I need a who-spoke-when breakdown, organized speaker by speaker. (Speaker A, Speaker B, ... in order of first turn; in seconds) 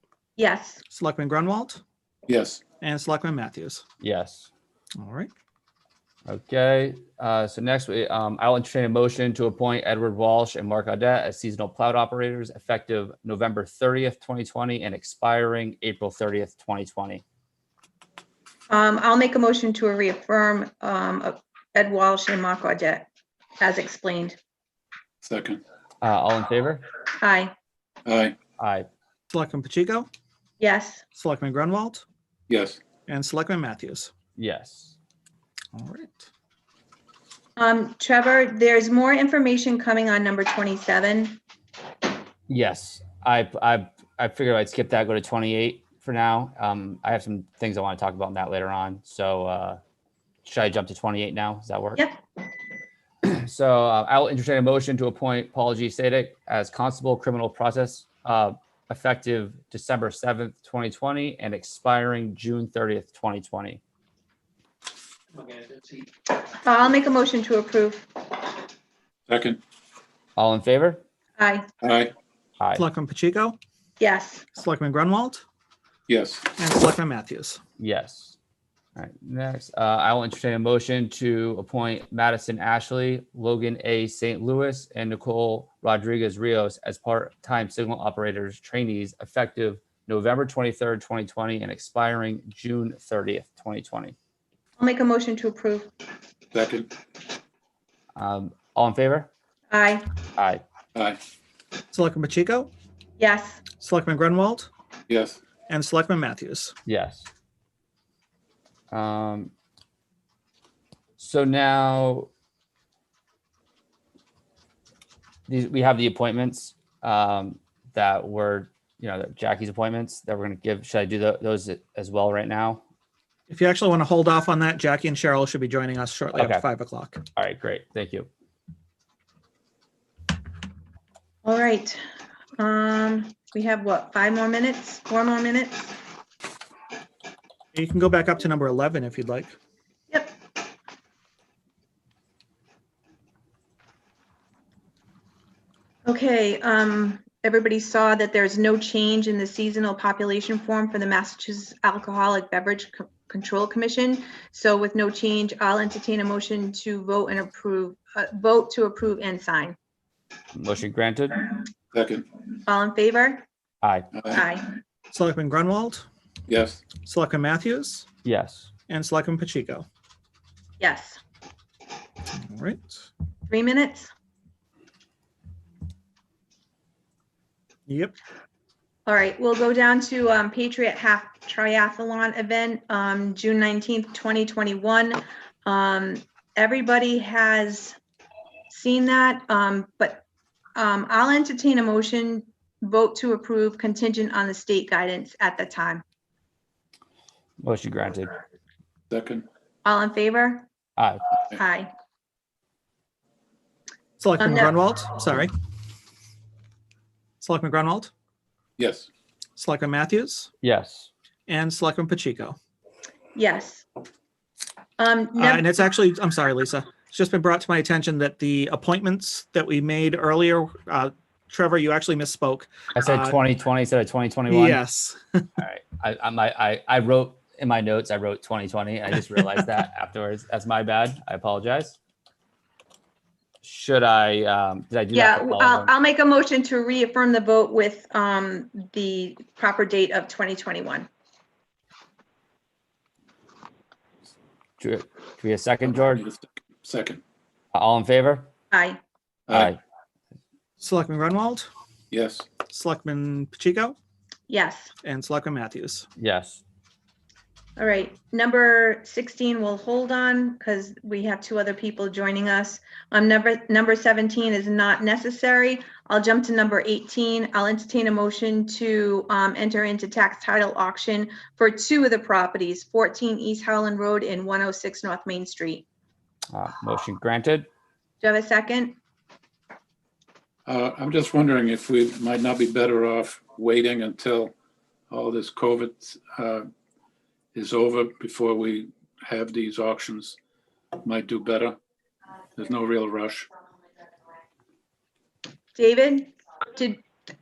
Speaker A: 0.4-0.8, 18.7-23.1, 23.6-24.4, 27.2-27.5, 30.6-31.0, 37.6-41.4, 66.6-68.1, 71.4-71.7, 74.0-74.5, 94.8-95.9, 99.7-100.1, 103.2-103.7, 131.4-132.0, 132.6-135.9, 140.1-140.3, 146.1-159.8, 162.6-163.4, 164.3-164.7, 170.8-171.2, 173.5-174.1, 179.1-188.0, 188.7-190.2, 190.8-196.0, 199.8-200.7, 201.5-201.9, 204.4-204.8, 213.3-213.8, 215.0-215.7, 235.1-241.1, 248.7-249.0, 254.5-254.9, 257.8-275.9, 278.2-279.0, 295.8-297.0
Speaker B: 0.9-1.8, 2.8-3.8, 5.0-5.3, 29.3-30.1, 31.1-32.0, 33.0-34.1, 35.7-36.3, 72.7-73.6, 74.5-75.4, 76.6-77.6, 101.9-102.7, 103.7-104.7, 105.7-106.7, 123.5-127.2, 137.7-139.5, 165.1-166.0, 166.9-168.1, 168.9-169.8, 172.3-173.1, 177.9-178.1, 204.2-205.5, 207.4-208.1, 209.6-210.5, 211.5-212.6, 215.3-223.4, 224.5-225.5, 250.8-251.7, 252.6-253.9, 255.0-256.1
Speaker C: 2.3-2.6, 25.2-25.6, 28.1-28.4, 32.5-32.8, 69.3-69.6, 71.8-72.1, 76.1-76.5, 96.5-96.9, 100.9-101.2, 105.1-105.4, 161.9-162.4, 166.5-166.8, 199.1-199.4, 208.8-209.1, 246.0-247.2, 249.5-249.7, 252.1-252.5, 280.7-284.5, 285.1-286.7, 287.5-290.4, 291.0-291.8, 292.6-293.5
Speaker D: 4.0-4.5, 6.3-17.2, 26.0-26.8, 28.6-28.9, 34.4-34.9, 42.5-49.8, 50.4-52.0, 53.2-63.8, 70.3-71.0, 77.8-78.3, 79.0-94.1, 98.2-99.3, 100.3-100.6, 106.9-107.3, 108.9-109.5, 111.2-112.3, 115.5-122.8, 126.3-126.6, 127.3-128.3, 160.5-161.6, 163.8-164.1, 168.2-168.7, 197.6-198.4, 201.0-201.2, 210.6-211.1, 222.9-224.8, 225.6-231.9, 233.6-235.9, 244.8-246.2, 247.7-248.5, 249.5-249.8, 256.2-256.6, 276.5-277.7